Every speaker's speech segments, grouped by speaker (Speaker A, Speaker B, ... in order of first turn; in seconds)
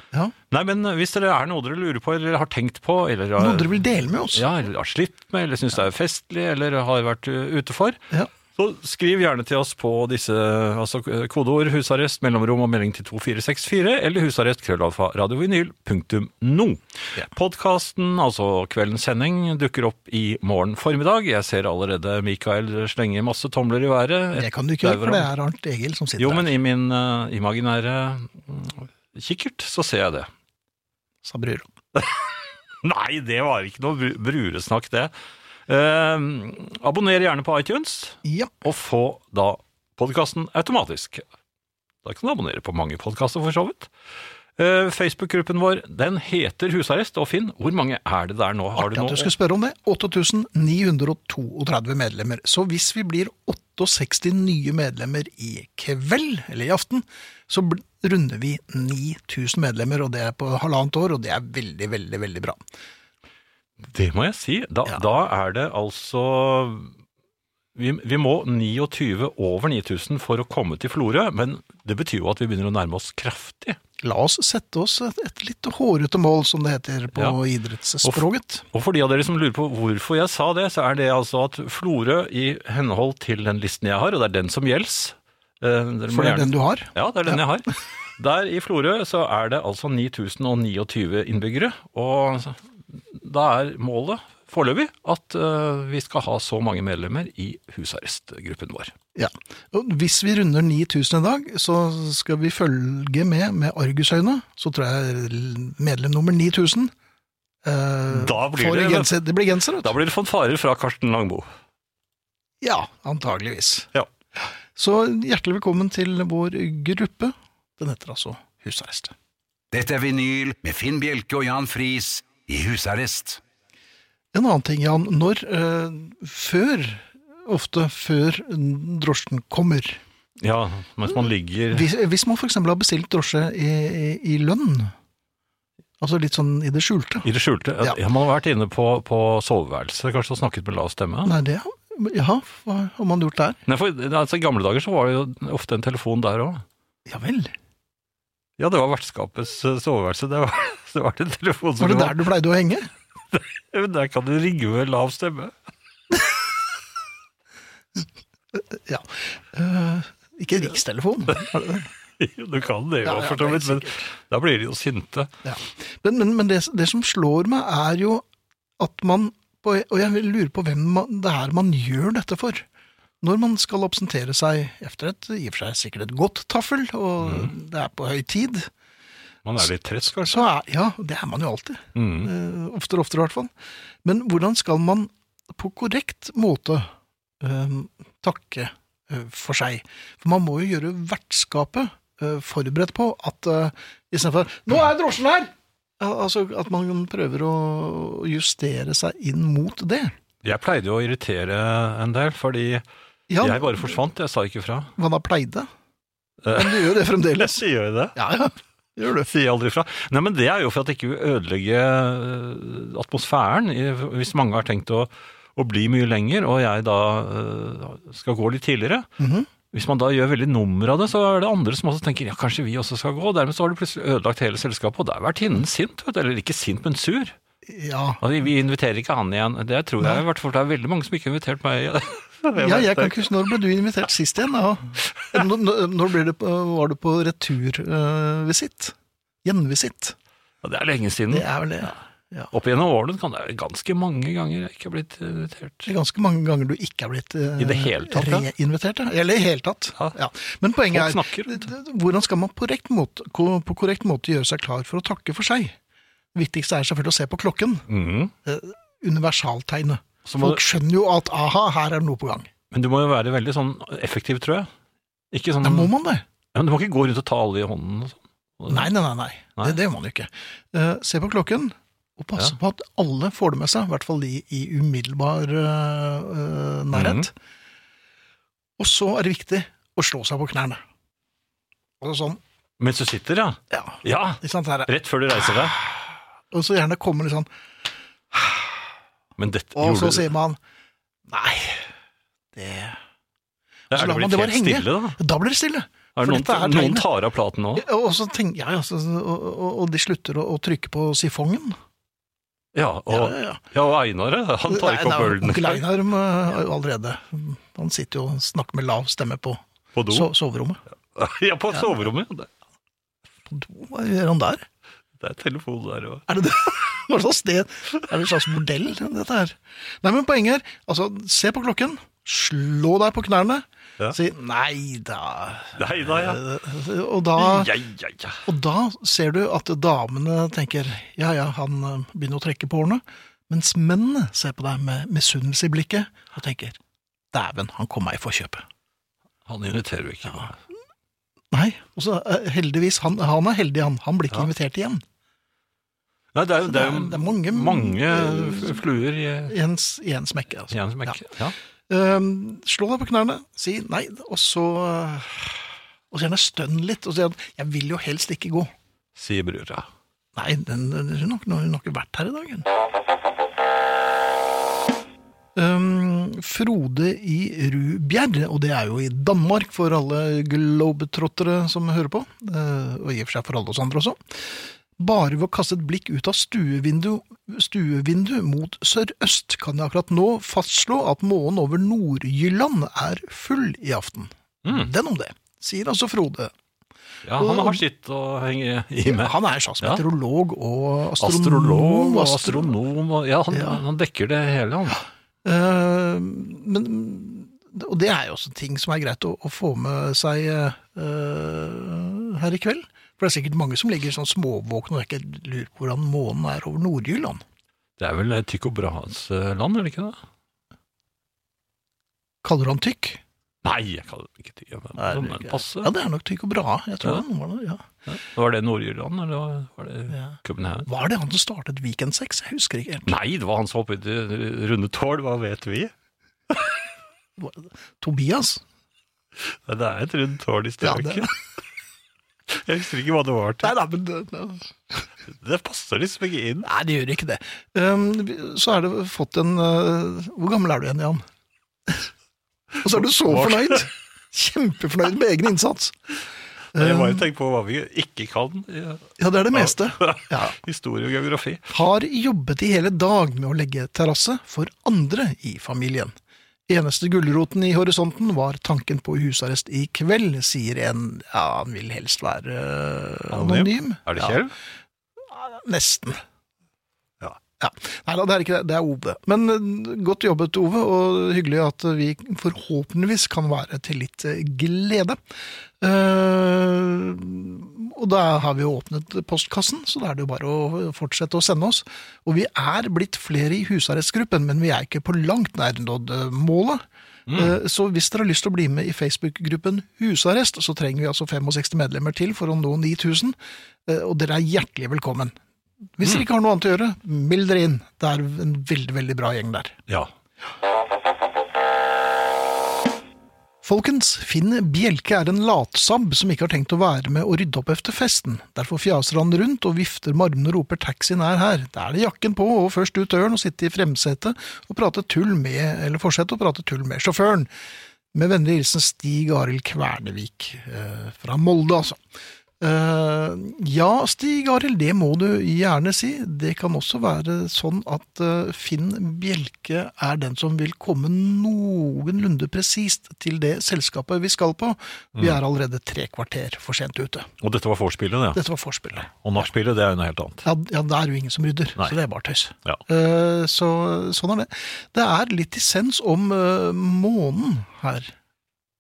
Speaker A: 0.5-3.8, 4.3-8.0, 8.6-25.3, 26.2-30.3, 31.9-35.1, 35.7-41.2, 42.0-43.9, 44.6-49.3, 63.8-66.9, 67.8-73.8, 78.0-98.9, 108.1-109.2, 109.8-111.5, 130.4-131.9, 137.2-141.3, 143.7-146.7, 148.6-152.2, 153.3-155.6, 162.2-165.3, 177.2-177.5, 179.4-180.5, 181.9-182.3, 200.4-202.8, 203.4-204.9, 206.4-208.2, 209.3-219.1, 219.7-227.3, 228.2-233.3, 240.6-241.9, 242.5-245.9, 247.6-248.5, 250.9-251.7, 257.9-258.3, 260.2-260.6, 262.7-264.7, 265.3-265.9, 266.5-268.9, 276.9-277.3, 282.8-285.8, 289.4-290.3, 293.9-295.2, 296.1-297.9, 302.7-305.9, 309.9-310.3, 311.1-312.5, 315.2-316.2, 325.8-326.4, 327.4-328.4, 339.5-340.6, 346.3-349.6, 350.7-351.6, 359.2-359.9, 384.6-384.9, 387.2-390.0, 391.2-395.0, 408.0-410.2, 413.6-415.9, 418.1-420.9, 423.1-425.9, 429.4-431.3, 432.5-433.7, 435.3-436.7, 442.9-443.8, 446.8-451.7, 463.3-464.5, 487.3-487.6, 537.4-538.4, 539.1-540.5
Speaker B: 3.4-4.5, 24.4-26.5, 31.2-31.7, 38.2-38.5, 48.8-62.6, 74.0-78.7, 86.1-87.4, 99.2-106.9, 107.6-109.9, 112.6-113.9, 114.8-119.1, 124.3-130.0, 131.7-134.9, 136.0-137.3, 141.2-143.6, 147.1-147.5, 151.8-152.9, 158.5-161.9, 163.0-164.0, 165.4-168.2, 168.8-172.7, 173.2-178.7, 180.2-183.5, 184.0-186.9, 187.4-200.1, 203.3-204.0, 205.0-205.7, 206.5-209.3, 219.2-219.5, 227.7-228.2, 232.6-240.2, 241.3-242.5, 245.8-255.8, 256.4-257.9, 258.4-262.5, 265.6-266.2, 268.7-277.3, 278.8-280.8, 282.0-282.4, 283.7-284.9, 286.5-287.5, 288.3-288.6, 289.8-290.6, 291.3-291.9, 292.5-293.0, 293.9-297.1, 297.8-301.8, 303.1-303.6, 304.7-310.8, 313.5-314.7, 316.3-327.8, 328.4-336.8, 337.3-338.6, 341.5-345.0, 346.6-348.8, 349.5-351.2, 351.9-355.5, 356.1-358.7, 360.4-362.7, 365.6-386.5, 387.4-387.8, 389.0-392.7, 393.5-393.8, 395.4-407.4, 412.4-413.2, 415.0-417.8, 420.1-423.1, 427.4-428.6, 430.8-431.3, 433.6-435.0, 436.6-441.2, 442.8-446.0, 446.7-447.3, 449.2-450.6, 451.7-456.1, 456.7-464.4, 465.2-466.2, 467.6-475.2, 475.8-495.4, 496.0-499.8, 503.6-517.5, 518.1-522.0, 522.6-537.3, 538.3-539.1, 540.4-548.1
Speaker C: 119.7-123.4